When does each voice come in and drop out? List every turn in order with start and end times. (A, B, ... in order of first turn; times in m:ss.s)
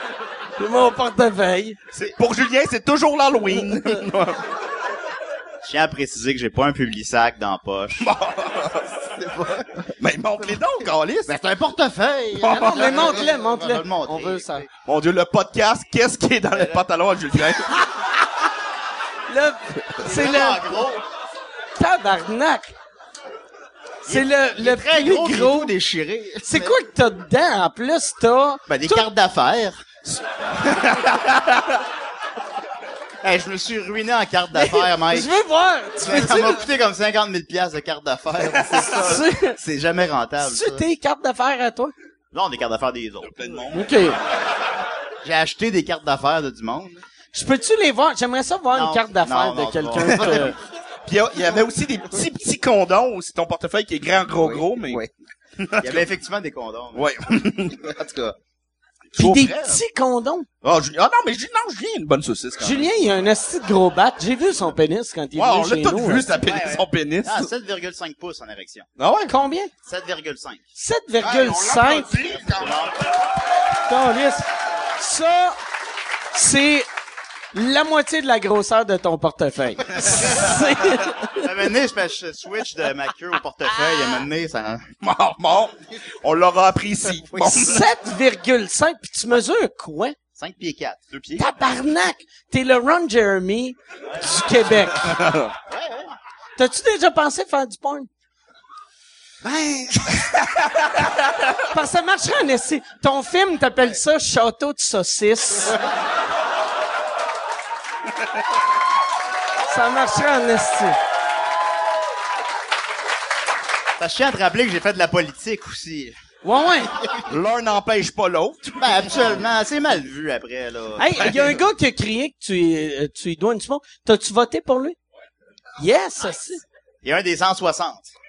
0:00.6-0:01.8 A
0:01.9-0:04.4 B
0:05.6-0:08.1 C
0:08.0-0:09.0 B
0:09.2-0:09.9 C
0:10.0-0:11.3 B
0:11.2-0:14.7 C
0:12.4-0:13.2 B
0:12.5-0:14.6 A
0:14.8-0:17.7 B
0:16.5-0:16.8 C
0:19.3-0:20.8 A
0:20.0-0:21.0 C
0:21.8-0:22.7 A
0:24.0-0:26.8 C
0:24.1-0:25.7 A
0:26.4-0:29.0 A
0:28.7-0:29.8 C
0:30.1-0:31.8 B
0:33.2-0:35.3 C
0:34.5-0:36.5 A
0:36.0-0:40.8 C
0:36.1-0:36.5 B
0:38.5-0:39.2 B
0:38.8-0:39.6 A
0:40.4-0:41.9 A
0:42.3-0:43.4 C
0:43.2-0:43.9 B
0:43.7-0:44.2 A
0:45.2-0:47.0 C
0:47.3-0:50.5 A
0:48.7-0:50.5 C
0:51.0-0:56.0 B
0:54.4-0:55.1 C
0:55.8-0:57.1 C
0:56.9-0:57.8 B
0:57.8-0:58.4 C
0:59.1-0:59.8 B
0:59.2-1:00.4 A
1:00.6-1:02.8 B
1:02.6-1:06.3 A
1:05.3-1:07.5 B
1:06.4-1:08.9 C
1:09.0-1:09.3 B
1:09.3-1:09.7 A
1:09.8-1:10.6 C
1:10.8-1:12.1 A
1:11.2-1:12.8 B
1:12.3-1:13.0 C
1:13.9-1:14.4 A
1:15.0-1:15.6 A
1:16.3-1:16.9 A
1:17.5-1:21.4 A
1:20.0-1:21.0 B
1:21.4-1:24.8 C
1:25.0-1:27.8 B
1:27.3-1:27.8 C
1:27.5-1:30.2 A
1:30.4-1:31.0 C
1:31.1-1:31.4 B
1:31.4-1:35.1 A
1:35.0-1:35.5 B
1:35.7-1:36.1 C
1:36.6-1:38.1 A
1:39.4-1:40.2 C
1:40.1-1:41.5 B
1:41.7-1:45.8 A
1:49.7-1:51.0 A
1:54.0-1:56.2 C
1:56.4-1:56.9 A
1:57.3-1:59.4 B
1:58.8-2:01.5 C
2:01.0-2:05.0 A
2:05.8-2:06.6 A
2:07.0-2:08.1 C